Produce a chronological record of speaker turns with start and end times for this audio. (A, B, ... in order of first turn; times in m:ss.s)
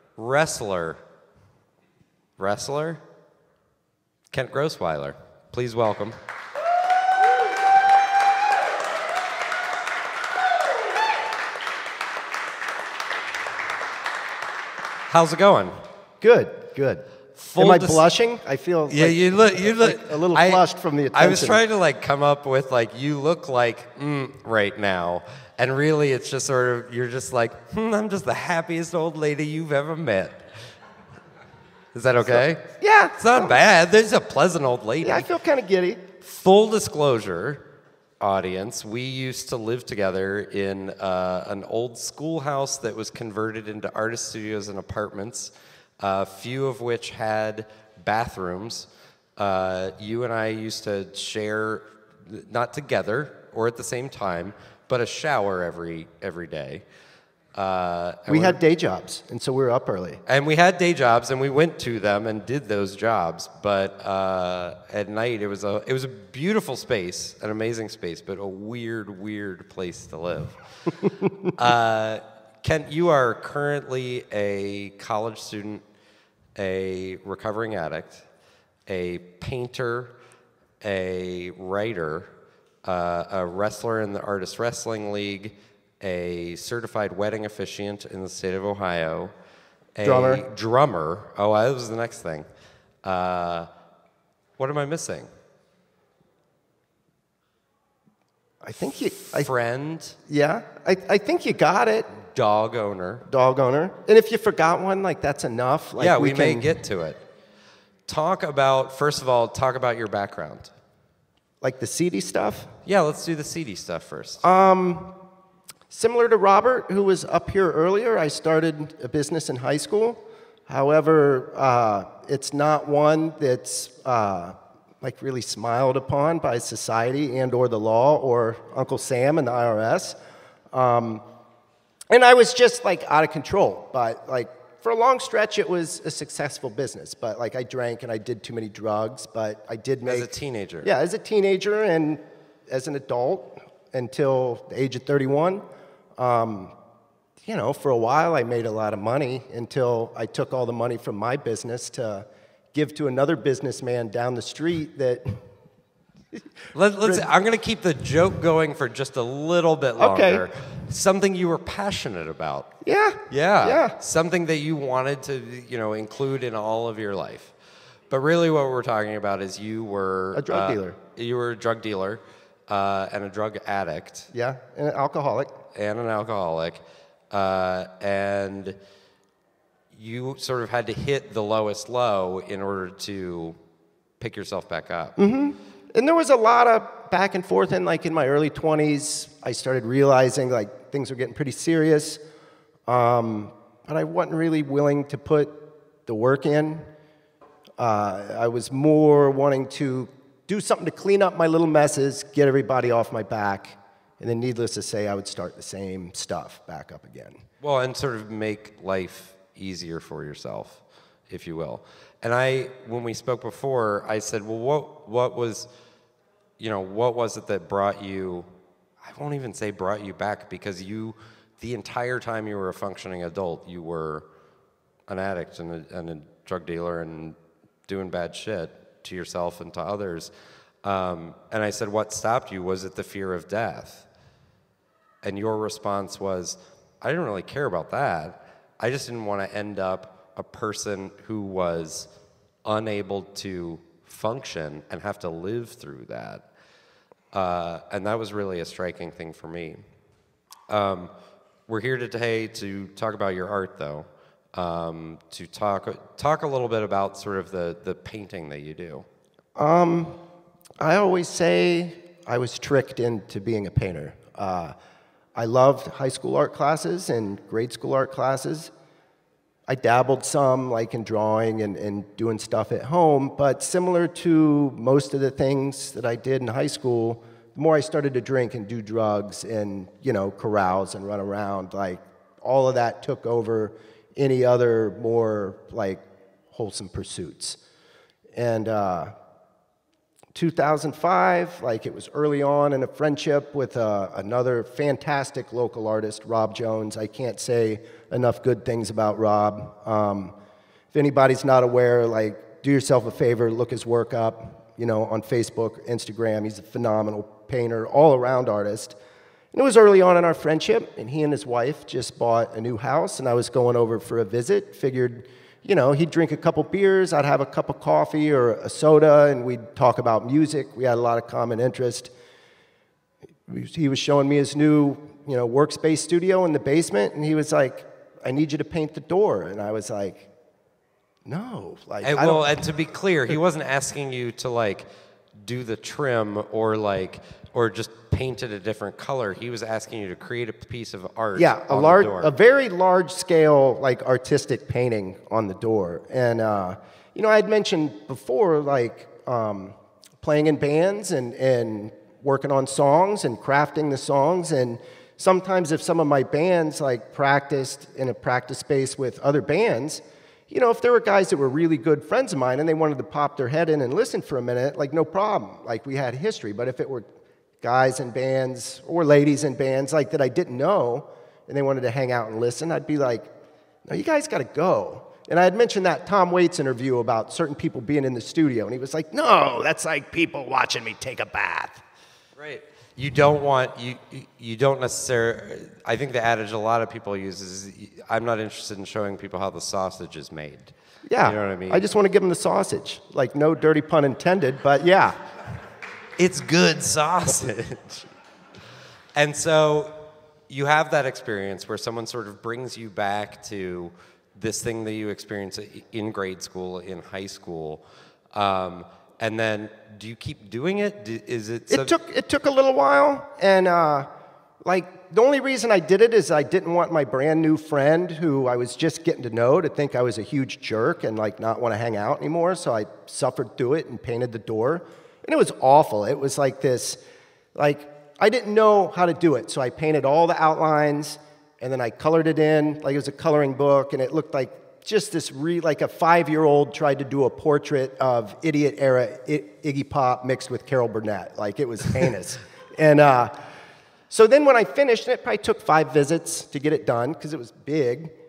0:00.2-0:01.0 A
0:02.4-0:03.0 A
0:04.3-0:06.2 A
0:15.1-0:15.7 A
0:16.2-0:21.6 B
0:17.4-0:18.0 A
0:18.9-0:30.4 A
0:31.9-0:32.6 A
0:32.2-0:33.6 B
0:33.2-0:35.2 A
0:35.0-0:36.0 B
0:36.2-0:37.6 A
0:38.2-0:56.8 A
0:57.5-0:58.6 A
0:58.3-1:00.2 B
1:00.3-1:10.6 A
1:11.5-1:15.8 A
1:16.6-1:18.2 A
1:18.9-1:20.2 A
1:20.8-1:22.3 A
1:22.8-1:29.3 A
1:30.0-1:32.4 A
1:30.0-1:30.4 B
1:33.0-1:33.7 A
1:34.6-1:35.3 A
1:38.6-1:39.5 B
1:39.3-1:40.2 A
1:40.2-1:42.1 B
1:42.1-1:43.2 A
1:43.2-1:46.8 B
1:46.0-1:47.2 A
1:48.1-1:50.7 A
1:51.6-1:52.7 B
1:52.8-1:54.4 A
1:54.4-1:55.2 B
1:55.9-2:10.2 B
2:10.7-2:11.2 B
2:12.1-2:20.3 B
2:20.0-2:20.9 A
2:20.8-2:25.6 B
2:26.2-2:26.7 B
2:27.4-2:35.4 B
2:36.7-2:42.7 A
2:40.0-2:40.4 B
2:42.8-2:43.9 B
2:43.3-2:47.5 A
2:48.1-2:54.3 A
2:50.3-2:51.0 B
2:54.3-2:55.5 B
2:55.7-2:58.8 A
2:59.9-3:03.6 A
3:04.2-3:05.1 A
3:05.2-3:12.2 B
3:12.9-3:16.8 B
3:17.8-3:27.4 B
3:27.6-3:35.7 A
3:36.6-3:38.5 A
3:39.0-3:44.2 A
3:45.1-3:47.4 A
3:47.9-3:50.3 A
3:50.8-3:54.1 A
3:55.2-4:02.1 A
4:02.6-4:06.5 A
4:07.3-4:09.8 A
4:10.7-4:11.1 A
4:11.7-4:19.0 A
4:19.6-4:20.2 B
4:20.8-4:24.7 B
4:25.3-4:28.7 B
4:29.7-4:47.6 B
4:48.4-4:49.1 B
4:50.3-5:00.3 B
5:00.9-5:09.0 B
5:09.5-5:22.1 B
5:23.5-5:30.3 B
5:31.2-5:32.5 B
5:32.0-5:34.8 A
5:35.4-5:42.3 A
5:41.3-6:07.1 B
6:07.6-6:13.3 B
6:13.8-6:21.8 B
6:22.4-6:31.8 A
6:31.0-6:35.2 B
6:36.2-6:38.1 A
6:39.2-6:47.8 A
6:48.3-6:51.9 A
6:51.7-6:54.1 B
6:54.6-7:07.0 B
7:07.5-7:23.4 B
7:24.1-7:28.1 B